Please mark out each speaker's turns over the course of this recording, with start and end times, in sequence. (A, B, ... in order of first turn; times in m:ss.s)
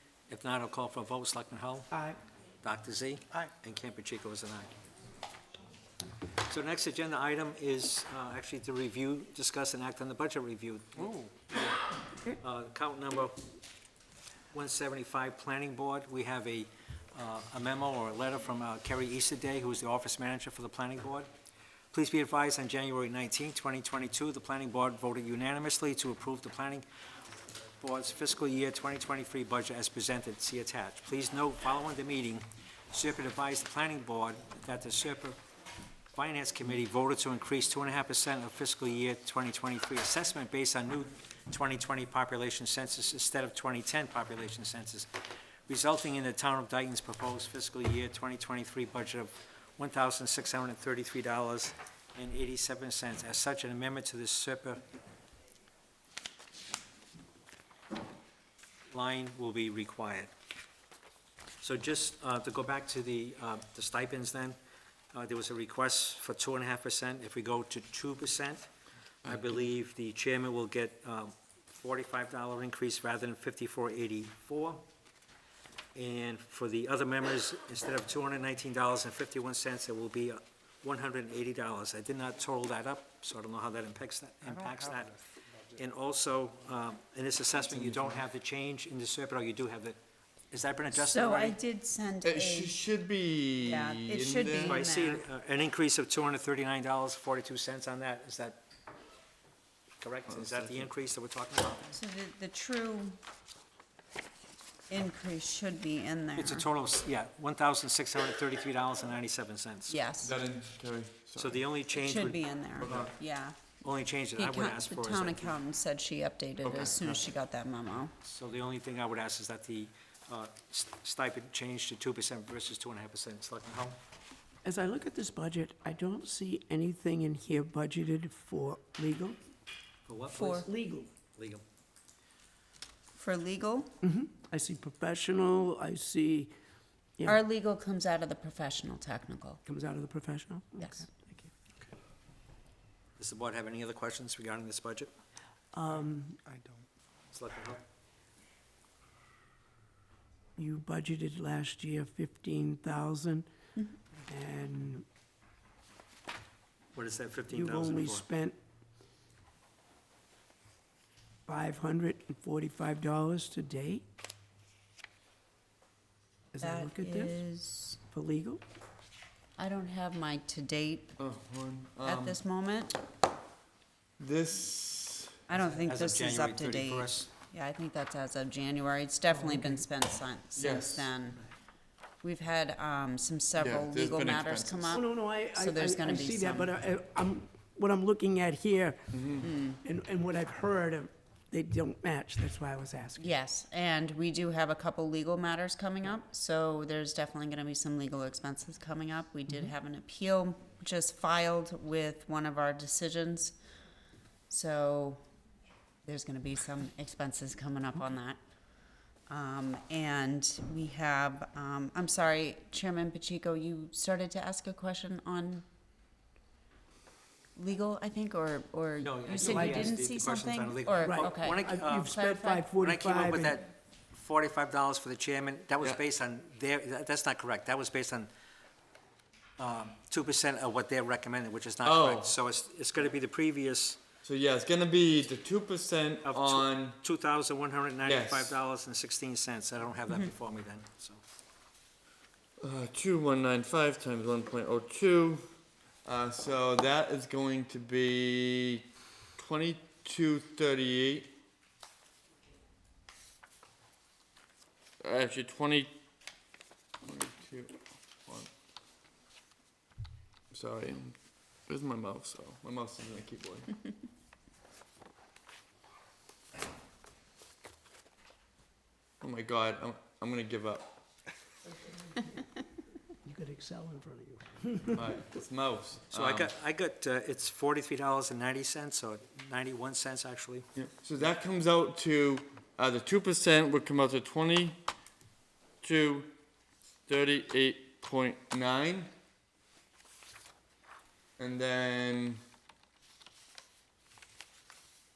0:00.3-0:02.0 A
0:02.6-0:04.7 A
0:06.4-0:11.2 A
0:12.3-0:13.4 A
0:14.5-0:21.3 A
0:21.9-0:26.8 A
0:27.8-0:35.4 A
0:36.1-0:45.1 A
0:45.7-0:54.8 A
0:58.9-1:00.3 A
1:01.6-1:04.6 A
1:05.1-1:08.7 A
1:09.2-1:14.8 A
1:16.0-1:25.2 A
1:25.7-1:30.0 A
1:30.5-1:31.6 A
1:30.9-1:32.8 B
1:32.2-1:34.8 C
1:33.6-1:35.2 B
1:34.6-1:38.6 A
1:40.0-1:42.0 A
1:40.3-1:40.9 C
1:41.9-1:43.2 B
1:44.9-1:46.7 B
1:46.4-1:50.0 A
1:49.9-1:50.4 B
1:50.2-1:51.8 C
1:51.4-1:53.1 A
1:52.0-1:53.6 B
1:52.8-1:53.1 C
1:53.8-1:55.5 A
1:54.4-1:58.1 B
1:56.6-1:57.2 C
1:58.2-2:04.0 A
2:04.6-2:09.4 D
2:10.1-2:10.7 A
2:10.3-2:10.7 B
2:10.6-2:11.1 D
2:11.3-2:11.6 A
2:13.2-2:13.9 B
2:14.0-2:16.5 D
2:17.3-2:19.6 B
2:19.6-2:21.5 D
2:20.8-2:21.0 B
2:23.2-2:25.1 A
2:25.7-2:26.4 D
2:27.3-2:27.8 A
2:30.6-2:33.5 D
2:34.2-2:35.1 D
2:36.9-2:38.2 A
2:37.5-2:38.6 D
2:41.5-2:44.1 D
2:46.5-2:47.4 D
2:46.6-2:48.0 B
2:48.1-2:48.6 D
2:49.6-2:51.2 B
2:51.2-2:52.4 C
2:52.0-2:53.0 B
2:54.2-2:55.4 C
2:55.5-3:01.4 B
2:55.7-2:57.3 A
2:59.4-2:59.8 D
3:00.6-3:01.1 C
3:02.2-3:05.0 B
3:03.6-3:05.0 C
3:04.9-3:09.1 D
3:05.5-3:06.7 B
3:09.1-3:09.5 C
3:09.4-3:09.8 B
3:09.8-3:13.4 D
3:13.2-3:23.6 B
3:24.5-3:25.2 B
3:26.0-3:28.4 B
3:29.3-3:35.6 B
3:37.6-3:42.7 B
3:39.0-3:42.2 A
3:39.4-3:40.0 D
3:41.0-3:43.6 D
3:42.7-3:48.3 A
3:49.6-3:54.0 A
3:51.8-3:52.4 C
3:54.2-3:57.0 C
3:56.3-4:01.2 A
3:58.0-3:58.6 C
4:02.6-4:05.4 C
4:06.0-4:08.8 C
4:09.4-4:11.3 C
4:15.0-4:15.9 C
4:17.0-4:18.5 C
4:20.5-4:21.2 C
4:21.7-4:23.8 C
4:29.2-4:31.0 C
4:33.2-4:35.1 D
4:35.0-4:36.5 C
4:36.1-4:40.7 A
4:40.8-4:44.8 C
4:45.8-4:46.3 C
4:47.1-4:49.1 C
4:51.4-4:52.4 C